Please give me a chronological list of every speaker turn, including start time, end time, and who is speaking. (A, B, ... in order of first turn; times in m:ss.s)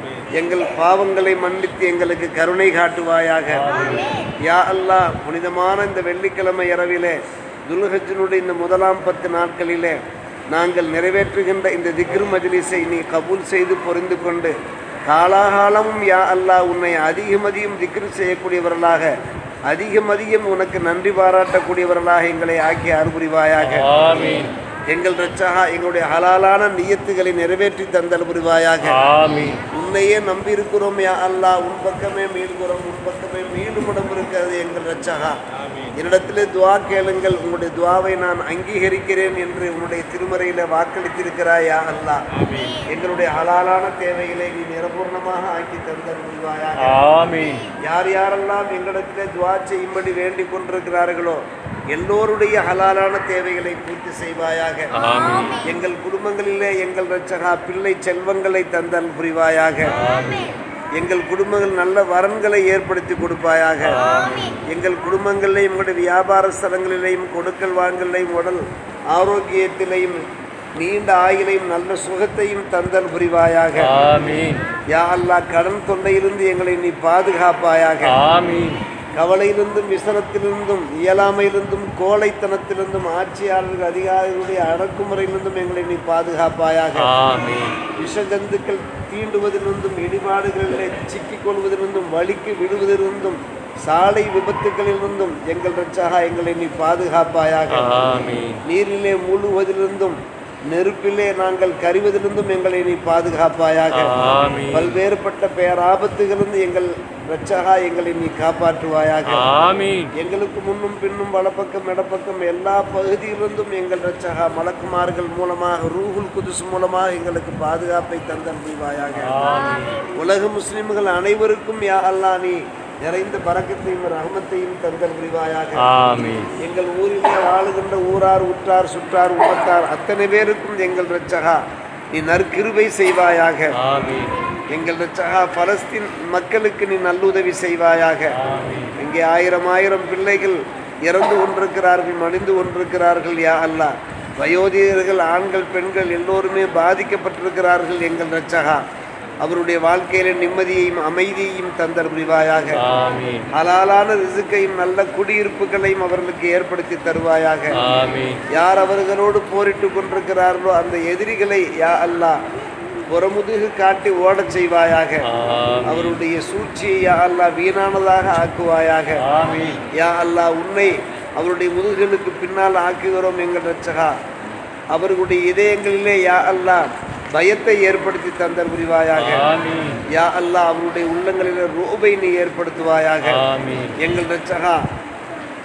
0:00.3-0:03.9 A
0:03.5-0:04.3 B
0:04.4-0:10.0 A
0:10.5-0:14.6 A
0:15.1-0:19.1 A
0:19.7-0:23.9 A
0:23.6-0:24.5 B
0:24.9-0:29.0 A
0:28.8-0:29.6 B
0:29.7-0:35.4 A
0:36.0-0:47.0 A
0:46.8-0:47.7 B
0:47.8-0:54.9 A
0:54.9-0:55.7 B
0:55.6-1:00.0 A
0:59.9-1:00.5 B
1:01.0-1:04.0 A
1:03.9-1:04.6 B
1:04.6-1:08.6 A
1:09.1-1:10.2 A
1:10.8-1:13.9 A
1:13.8-1:14.6 B
1:14.9-1:18.2 A
1:18.1-1:18.8 B
1:19.2-1:27.1 A
1:27.0-1:27.8 B
1:28.0-1:38.0 A
1:37.7-1:38.6 B
1:38.6-1:49.5 A
1:43.9-1:45.0 B
1:49.3-1:50.1 B
1:50.1-1:59.3 A
1:59.2-2:00.0 B
2:00.1-2:05.9 A
2:05.8-2:06.5 B
2:06.6-2:11.6 A
2:12.1-2:13.8 A
2:13.8-2:14.4 B
2:14.7-2:18.4 A
2:18.4-2:19.0 B
2:19.0-2:28.8 A
2:29.4-2:32.8 A
2:32.8-2:33.5 B
2:33.5-2:37.8 A
2:37.7-2:38.4 B
2:38.5-2:42.4 A
2:43.1-2:45.3 A
2:45.2-2:46.2 B
2:45.8-2:49.2 A
2:49.2-2:49.8 B
2:49.9-2:54.1 A
2:54.9-2:59.5 A
2:59.2-3:00.0 B
3:00.1-3:03.4 A
3:03.2-3:04.0 B
3:04.0-3:04.8 A